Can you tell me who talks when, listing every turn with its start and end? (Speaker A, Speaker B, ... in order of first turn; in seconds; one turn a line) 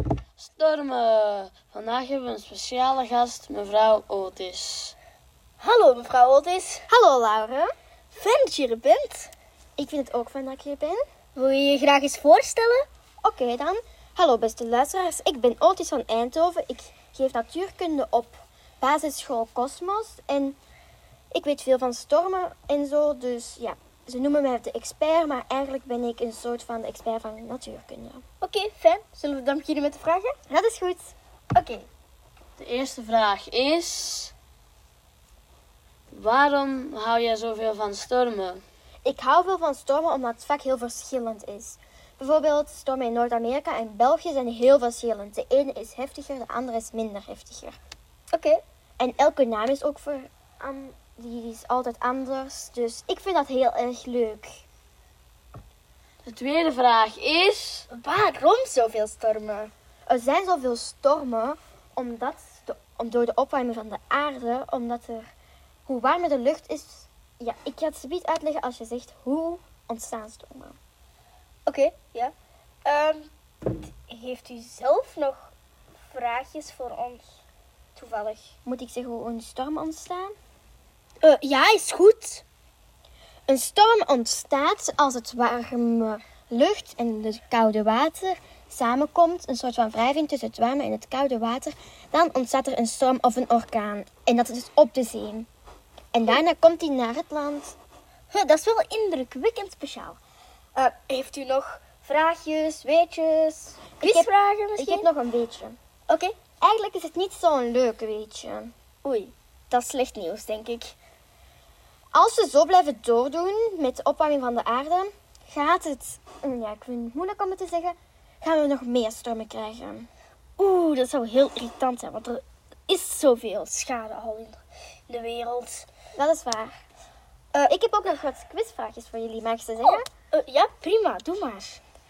Speaker A: 0.4-5.0
Speaker B: 5.6-6.9
Speaker C: 6.9-7.7
Speaker B: 8.1-9.3
Speaker C: 9.8-11.0
Speaker B: 11.4-12.9
Speaker C: 13.2-20.6
Speaker C: 21.3-28.2
Speaker B: 28.4-30.4
Speaker C: 30.5-31.1
Speaker B: 31.5-31.9
Speaker A: 32.6-34.3
Speaker A: 36.1-38.6
Speaker C: 39.0-47.8
Speaker B: 48.3-48.6
Speaker C: 49.0-54.5
Speaker A: 56.2-57.9
Speaker B: 57.9-59.7
Speaker C: 60.1-65.3
Speaker C: 65.9-70.8
Speaker B: 71.7-72.3
Speaker B: 72.8-75.5
Speaker B: 76.1-77.4
Speaker B: 78.0-78.5
Speaker C: 78.7-80.3
Speaker B: 81.2-82.4
Speaker C: 83.5-95.5
Speaker C: 96.1-97.8
Speaker B: 98.3-100.2
Speaker B: 100.8-105.1
Speaker C: 104.0-105.8
Speaker B: 106.1-106.3
Speaker C: 106.6-108.7
Speaker B: 109.0-111.0
Speaker C: 112.1-120.1
Speaker B: 120.6-125.9
Speaker C: 126.2-126.8
Speaker C: 127.7-130.1
Speaker B: 129.9-131.8